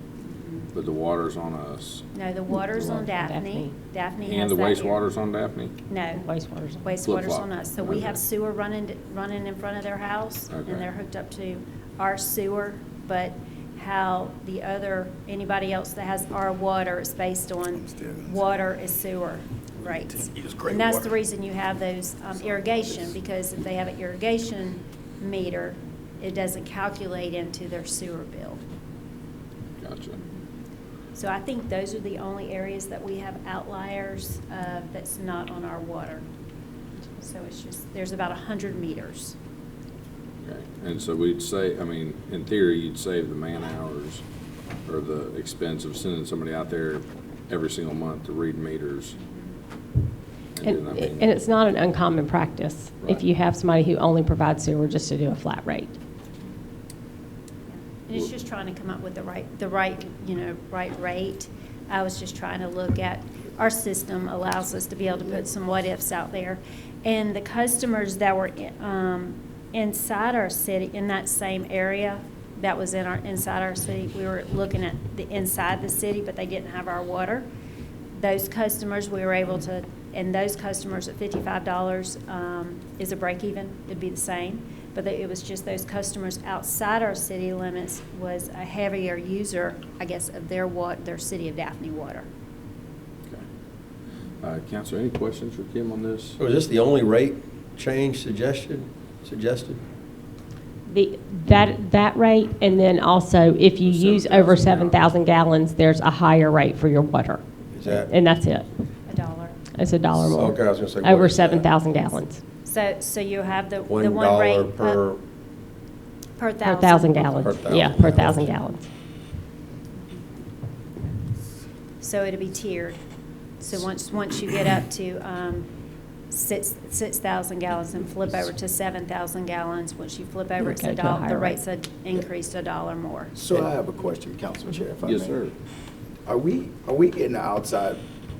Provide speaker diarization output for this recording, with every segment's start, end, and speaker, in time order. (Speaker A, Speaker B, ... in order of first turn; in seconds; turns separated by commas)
Speaker A: 0.3-0.6, Speaker B: 0.7-2.0, Speaker A: 2.1-5.0, Speaker C: 2.5-3.8, Speaker B: 4.2-5.8, Speaker A: 5.9-6.2, Speaker C: 6.1-7.0, Speaker A: 6.8-28.6, Speaker B: 7.0-8.2, Speaker B: 10.5-10.9, Speaker D: 17.8-18.4, Speaker D: 20.1-21.1, Speaker B: 29.8-30.2, Speaker A: 31.1-36.2, Speaker A: 37.2-39.4, Speaker B: 40.4-44.2, Speaker B: 44.9-49.1, Speaker B: 50.6-51.3, Speaker C: 50.6-56.0, Speaker A: 57.7-77.5, Speaker A: 78.2-92.3, Speaker B: 94.4-96.4, Speaker E: 96.4-99.8, Speaker C: 100.9-108.7, Speaker B: 103.8-105.0, Speaker E: 107.8-108.1, Speaker A: 109.1-109.7, Speaker C: 109.7-112.4, Speaker E: 110.2-111.7, Speaker A: 112.7-115.0, Speaker E: 113.9-115.2, Speaker A: 116.4-117.6, Speaker C: 116.6-118.9, Speaker E: 117.4-118.5, Speaker A: 122.0-123.0, Speaker A: 123.6-125.7, Speaker A: 126.3-133.3, Speaker C: 130.6-131.6, Speaker D: 133.3-135.4, Speaker B: 135.0-135.5, Speaker D: 136.3-138.0